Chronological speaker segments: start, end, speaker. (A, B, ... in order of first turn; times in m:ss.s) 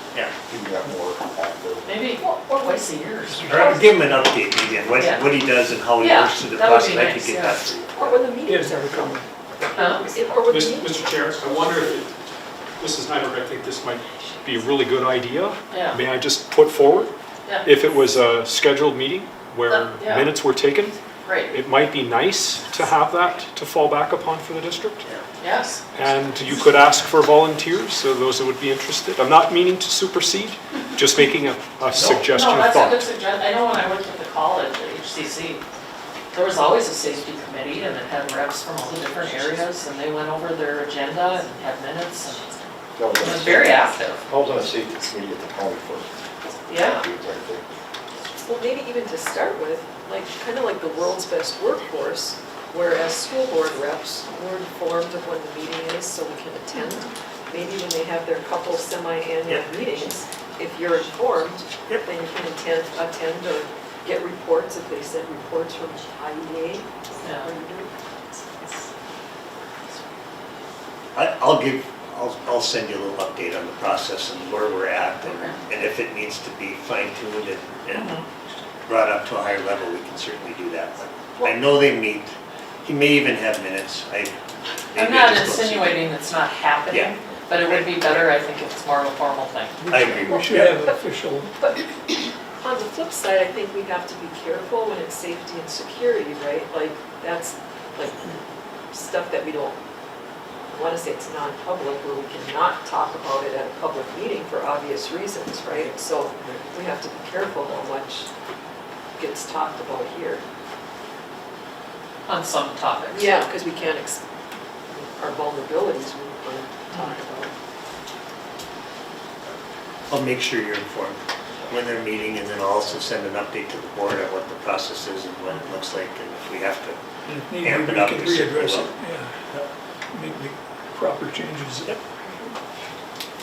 0:00.5-0:02.0 A
0:01.8-0:03.9 B
0:02.2-0:02.8 C
0:03.5-0:08.3 D
0:05.0-0:05.3 B
0:06.0-0:07.6 B
0:07.9-0:11.0 C
0:08.4-0:10.5 E
0:09.7-0:10.0 B
0:10.5-0:12.2 F
0:12.8-0:21.0 F
0:15.7-0:16.0 B
0:19.7-0:20.3 B
0:21.2-0:21.5 B
0:21.5-0:25.1 F
0:25.4-0:25.8 B
0:25.9-0:33.1 F
0:32.0-0:35.6 B
0:36.3-0:44.2 B
0:43.0-0:46.1 A
0:46.7-0:47.0 B
0:46.7-0:47.6 A
0:48.4-1:07.9 C
0:59.4-0:59.8 D
1:07.2-1:07.5 B
1:11.1-1:18.2 D
1:15.2-1:15.5 B
1:17.9-1:18.2 B
1:18.8-1:26.0 D
1:21.4-1:21.6 C
1:25.0-1:29.8 B
1:26.9-1:27.1 D
1:27.6-1:28.2 D
1:29.8-1:31.6 E
1:29.9-1:30.4 D
1:30.3-1:31.0 C
1:31.6-1:31.9 C
1:32.6-1:38.4 C
1:38.9-1:39.8 C
1:40.7-1:48.3 C
1:49.2-1:50.4 C
1:52.3-1:53.5 B
1:53.1-1:54.2 C
1:54.9-1:57.5 C
2:00.1-2:07.0 D
2:07.2-2:12.0 E
2:07.6-2:08.9 D